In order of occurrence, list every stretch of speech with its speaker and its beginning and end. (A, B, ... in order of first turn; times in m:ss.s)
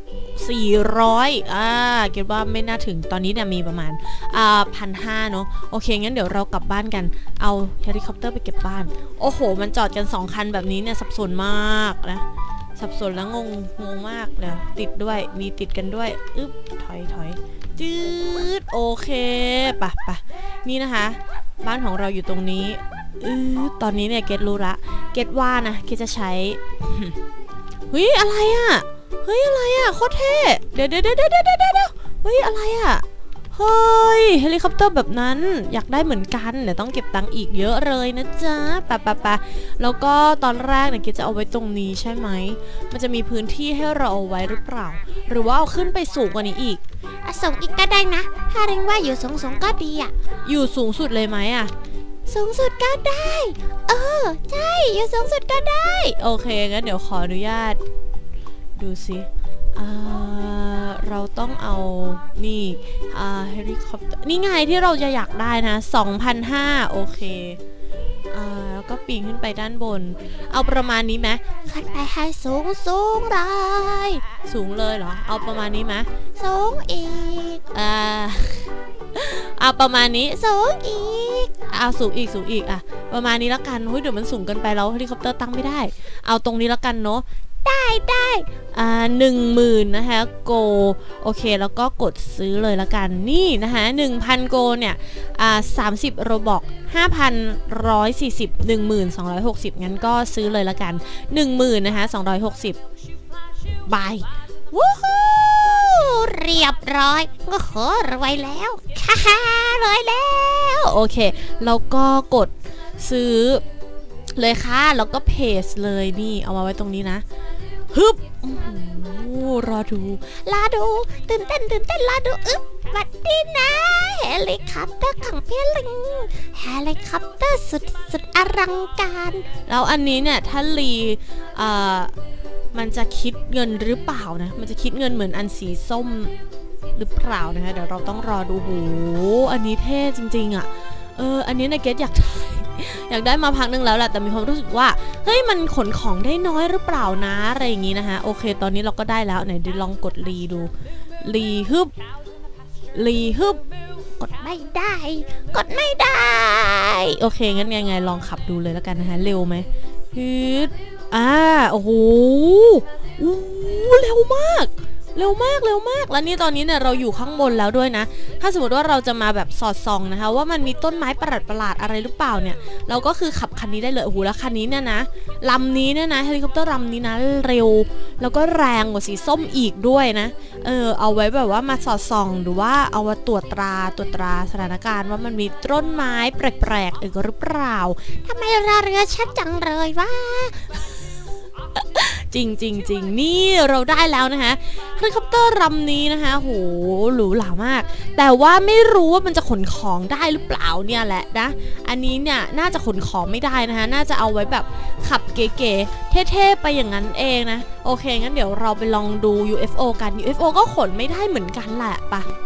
0:00.4-0:12.2 A
0:12.8-0:27.2 A
0:27.9-0:46.8 A
0:47.2-0:50.1 B
0:50.4-0:51.7 A
0:52.3-0:56.1 B
0:56.1-0:57.8 A
0:58.8-1:07.6 A
1:08.3-1:11.5 A
1:11.6-1:14.2 B
1:14.3-1:16.1 A
1:16.4-1:17.7 B
1:17.7-1:20.6 A
1:20.6-1:21.5 B
1:21.6-1:27.2 A
1:27.6-1:28.5 B
1:28.5-1:42.8 A
1:43.9-1:46.0 A
1:45.2-1:50.8 B
1:50.8-1:53.6 A
1:54.4-1:57.2 A
1:57.9-2:00.3 A
2:00.3-2:09.5 B
2:09.6-2:12.1 A
2:12.7-2:16.3 A
2:17.0-2:30.7 A
2:31.2-2:31.9 A
2:32.9-2:33.6 A
2:34.2-2:37.0 B
2:37.0-3:08.2 A
3:08.2-3:10.7 B
3:11.7-3:32.3 A